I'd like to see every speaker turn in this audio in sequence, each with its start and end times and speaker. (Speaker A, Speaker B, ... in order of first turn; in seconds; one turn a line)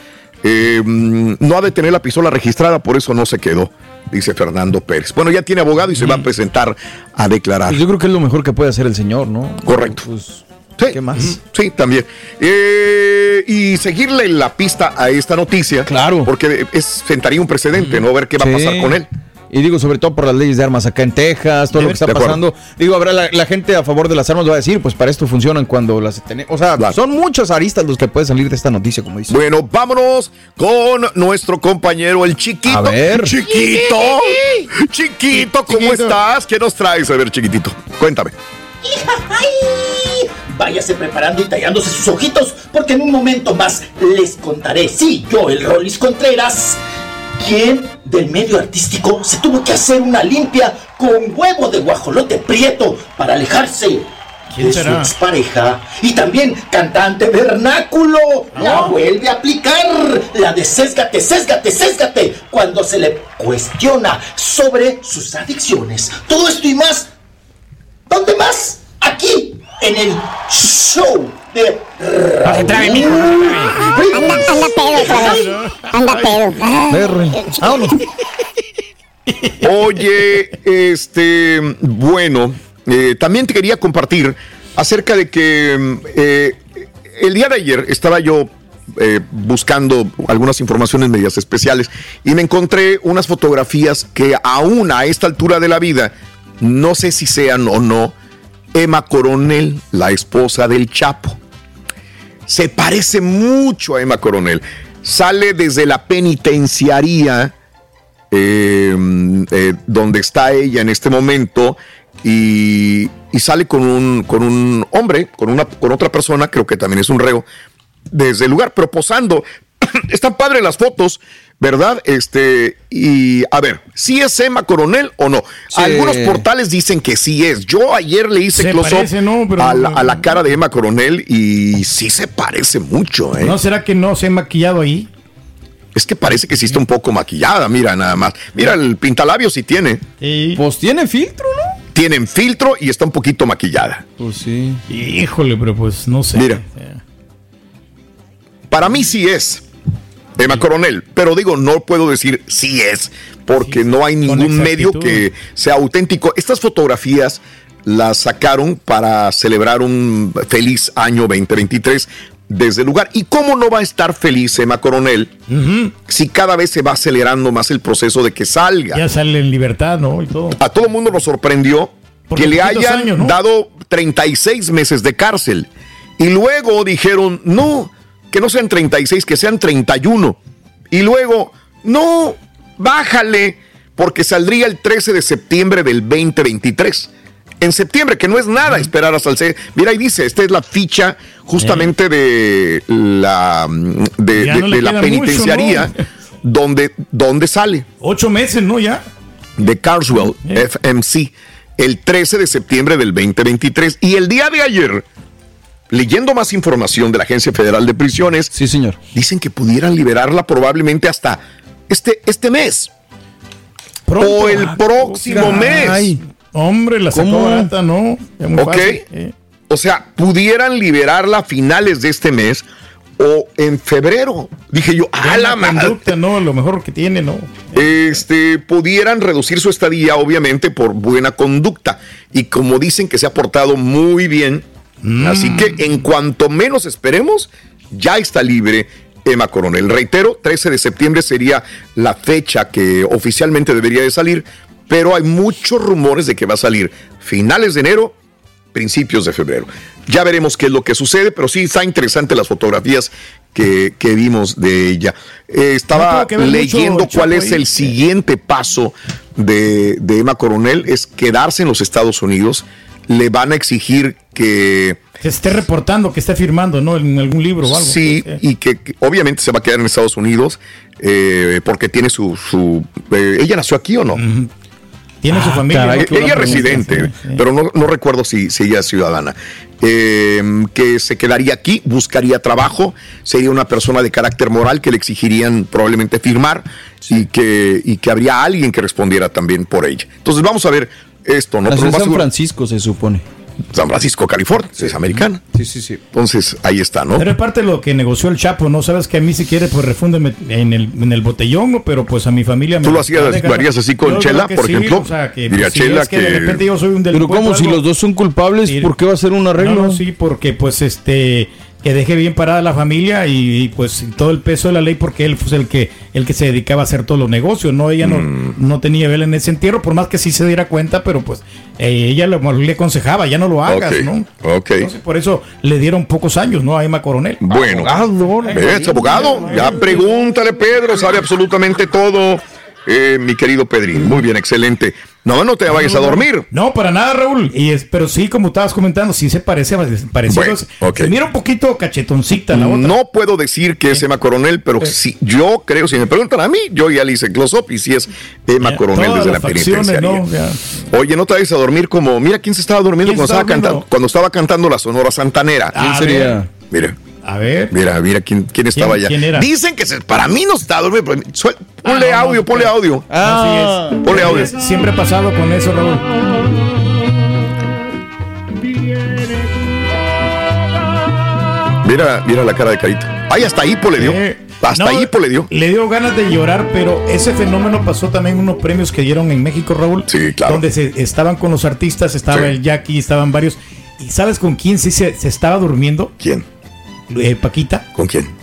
Speaker A: 0.4-7.8
Speaker B: 7.7-11.4
Speaker A: 9.6-10.0
Speaker A: 10.8-19.1
Speaker B: 15.8-16.3
Speaker B: 18.4-19.0
Speaker B: 19.5-29.4
Speaker A: 21.7-22.4
Speaker A: 29.3-38.3
Speaker B: 32.7-33.4
Speaker C: 35.3-36.1
Speaker D: 38.8-46.8
Speaker D: 47.4-54.0
Speaker C: 54.5-55.1
Speaker D: 54.6-67.1
Speaker C: 58.5-58.9
Speaker D: 68.1-75.2
Speaker C: 72.5-73.7
Speaker E: 73.2-77.9
Speaker C: 75.3-75.5
Speaker B: 76.9-77.4
Speaker C: 77.6-78.0
Speaker A: 79.6-98.1
Speaker A: 98.7-101.4
Speaker A: 102.5-107.5
Speaker A: 108.3-117.5
Speaker A: 118.1-133.6
Speaker B: 125.7-126.4
Speaker C: 128.5-130.3
Speaker C: 133.4-135.1
Speaker A: 135.9-140.0
Speaker C: 140.2-140.6
Speaker B: 140.6-141.8
Speaker A: 141.9-144.0
Speaker B: 144.2-144.8
Speaker C: 144.9-147.0
Speaker A: 146.3-146.6
Speaker A: 148.7-149.6
Speaker A: 150.4-165.3
Speaker C: 153.6-155.2
Speaker C: 165.5-165.9
Speaker A: 166.1-169.0
Speaker C: 168.9-170.6
Speaker A: 170.6-175.7
Speaker C: 172.3-173.3
Speaker A: 176.2-180.4
Speaker A: 180.9-195.9
Speaker C: 191.6-191.9
Speaker C: 194.3-195.9
Speaker A: 196.4-197.8
Speaker C: 198.0-199.0
Speaker A: 199.6-205.0
Speaker A: 205.9-208.5
Speaker B: 208.5-209.0
Speaker A: 209.1-212.9
Speaker C: 214.1-219.3
Speaker A: 214.2-216.1
Speaker B: 215.3-216.2
Speaker B: 217.1-217.7
Speaker A: 218.6-219.0
Speaker A: 219.7-222.7
Speaker A: 223.2-226.0
Speaker C: 225.2-227.8
Speaker A: 227.7-234.6
Speaker C: 235.0-235.9
Speaker A: 235.2-248.1
Speaker A: 248.7-265.0
Speaker C: 255.9-257.9
Speaker C: 265.2-268.4
Speaker A: 267.6-274.2
Speaker C: 274.1-274.5
Speaker C: 275.2-277.4
Speaker B: 275.3-276.8
Speaker A: 275.9-292.3
Speaker B: 291.7-293.2
Speaker A: 293.7-295.4
Speaker B: 294.8-296.0
Speaker A: 296.1-297.3
Speaker C: 297.1-307.8
Speaker A: 302.8-306.6
Speaker B: 307.1-310.0
Speaker C: 309.6-330.2
Speaker A: 318.0-318.6
Speaker A: 323.6-324.9
Speaker A: 327.4-327.9
Speaker B: 328.1-328.7
Speaker A: 328.5-336.4
Speaker C: 335.7-342.9
Speaker A: 340.3-341.1
Speaker A: 342.5-350.2
Speaker C: 348.6-350.6
Speaker A: 350.9-355.8
Speaker C: 353.0-353.8
Speaker C: 355.7-356.4
Speaker B: 355.8-356.4
Speaker C: 357.2-357.7
Speaker A: 357.7-363.1
Speaker C: 358.7-359.5
Speaker C: 361.8-362.7
Speaker B: 363.1-364.0
Speaker C: 363.2-366.1
Speaker A: 364.0-364.5
Speaker A: 371.8-375.5
Speaker C: 374.0-386.1
Speaker A: 380.1-380.6
Speaker A: 386.2-386.4
Speaker C: 387.1-387.8
Speaker A: 387.9-388.3